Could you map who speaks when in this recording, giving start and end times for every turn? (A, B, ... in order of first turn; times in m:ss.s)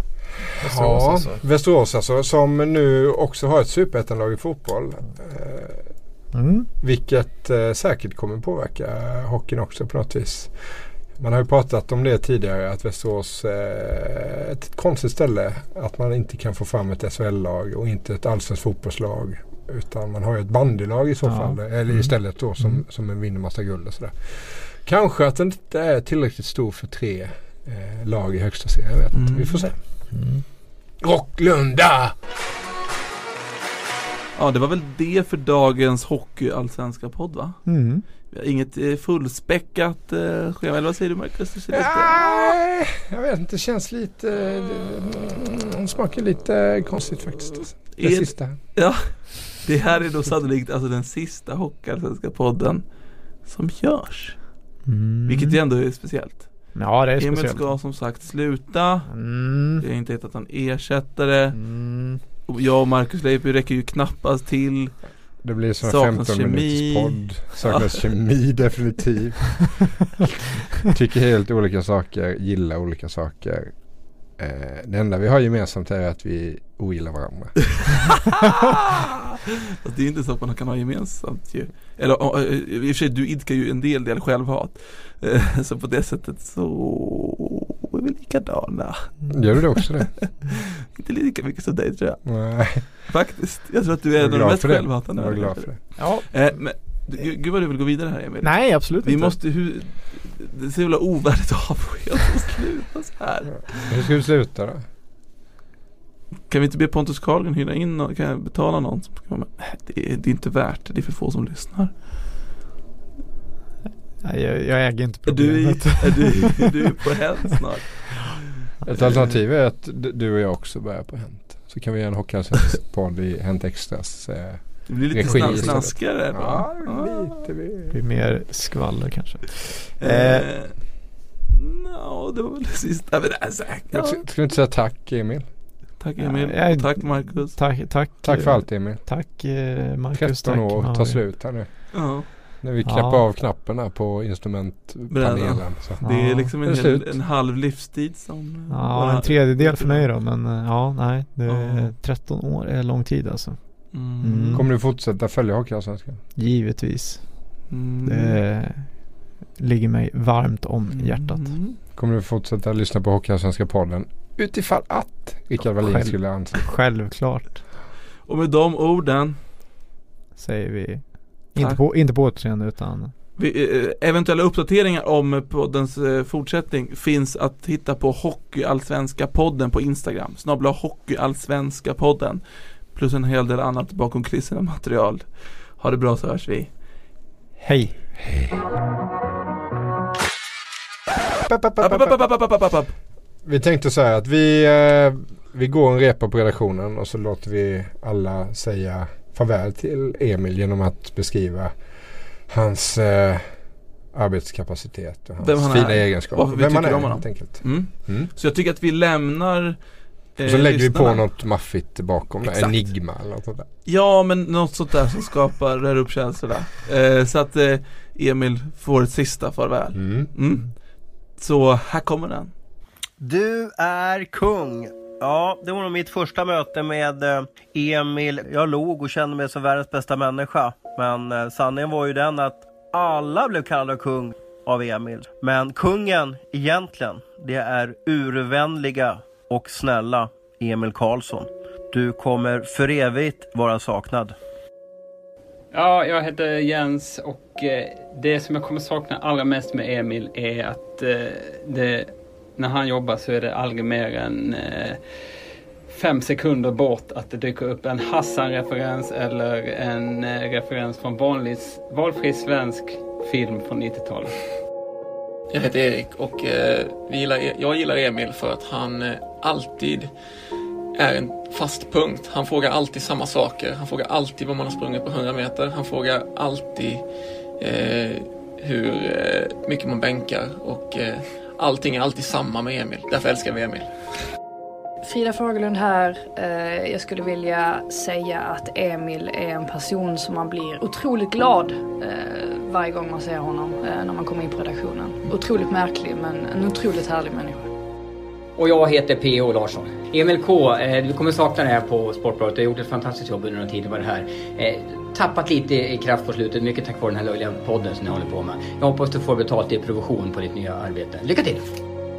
0:00.5-0:01.4 A
0:00.6-0:05.8 B
0:06.3-0:06.7 A
0:06.8-0:10.5 B
0:11.2-0:29.8 B
0:21.2-0:21.6 A
0:29.1-0:29.7 C
0:30.1-0:30.4 A
0:31.0-0:32.2 B
0:34.4-0:37.6 C
0:37.6-0:38.0 A
0:38.3-0:42.2 C
0:41.7-0:48.6 B
0:48.0-0:52.8 C
0:53.4-0:54.4 C
0:54.9-0:55.6 A
0:55.3-0:56.5 C
0:56.7-0:57.7 A
0:57.2-0:59.1 C
0:59.1-0:59.8 A
0:59.8-1:01.6 C
1:01.5-1:02.2 A
1:02.5-1:05.0 C
1:05.4-1:10.2 B
1:05.8-1:07.8 C
1:10.8-1:13.7 B
1:14.4-1:17.6 B
1:18.3-1:18.8 C
1:19.8-1:29.3 C
1:29.3-1:30.1 B
1:30.4-1:43.9 C
1:32.2-1:32.9 B
1:34.2-1:35.8 B
1:36.0-1:36.2 A
1:38.4-1:39.4 A
1:43.8-1:44.8 B
1:46.5-1:51.9 C
1:54.2-1:56.8 A
1:55.3-1:58.4 C
1:58.8-2:08.0 B
1:59.0-1:59.3 C
2:04.9-2:07.4 C
2:07.9-2:10.5 A
2:10.0-2:10.8 C
2:11.5-2:14.2 C
2:13.9-2:15.4 B
2:16.0-2:17.6 C
2:16.2-2:21.2 A
2:18.2-2:19.0 B
2:20.1-2:26.0 B
2:21.9-2:22.3 C
2:22.8-2:23.2 A
2:25.1-2:30.1 C
2:26.0-2:26.5 A
2:26.6-2:27.1 B
2:28.7-2:33.6 A
2:31.5-2:31.9 C
2:33.9-2:34.6 C
2:34.2-2:34.7 A
2:34.5-2:36.2 B
2:36.4-2:37.3 A
2:37.7-2:38.4 C
2:38.0-2:38.9 A
2:39.6-2:41.5 A
2:40.9-2:41.8 C
2:41.9-2:46.6 B
2:45.8-2:47.6 A
2:48.2-2:49.4 C
2:50.4-2:53.1 A
2:53.4-3:05.2 C
3:05.8-3:06.7 C
3:07.6-3:07.9 A
3:11.5-3:12.3 B
3:11.8-3:12.9 C
3:13.4-3:21.7 B
3:22.5-3:23.4 B
3:24.1-3:28.3 B
3:25.4-3:29.8 C
3:30.3-3:31.2 C
3:30.4-3:33.7 B
3:32.4-3:32.9 C
3:33.8-3:40.7 C
3:39.9-3:40.3 B
3:41.4-3:42.5 C
3:43.2-4:04.3 D
4:05.7-4:15.0 E
4:15.9-4:24.4 E
4:25.5-4:30.1 F
4:31.0-4:37.0 F
4:37.6-4:43.9 F
4:45.0-4:57.7 G
4:58.6-5:11.7 H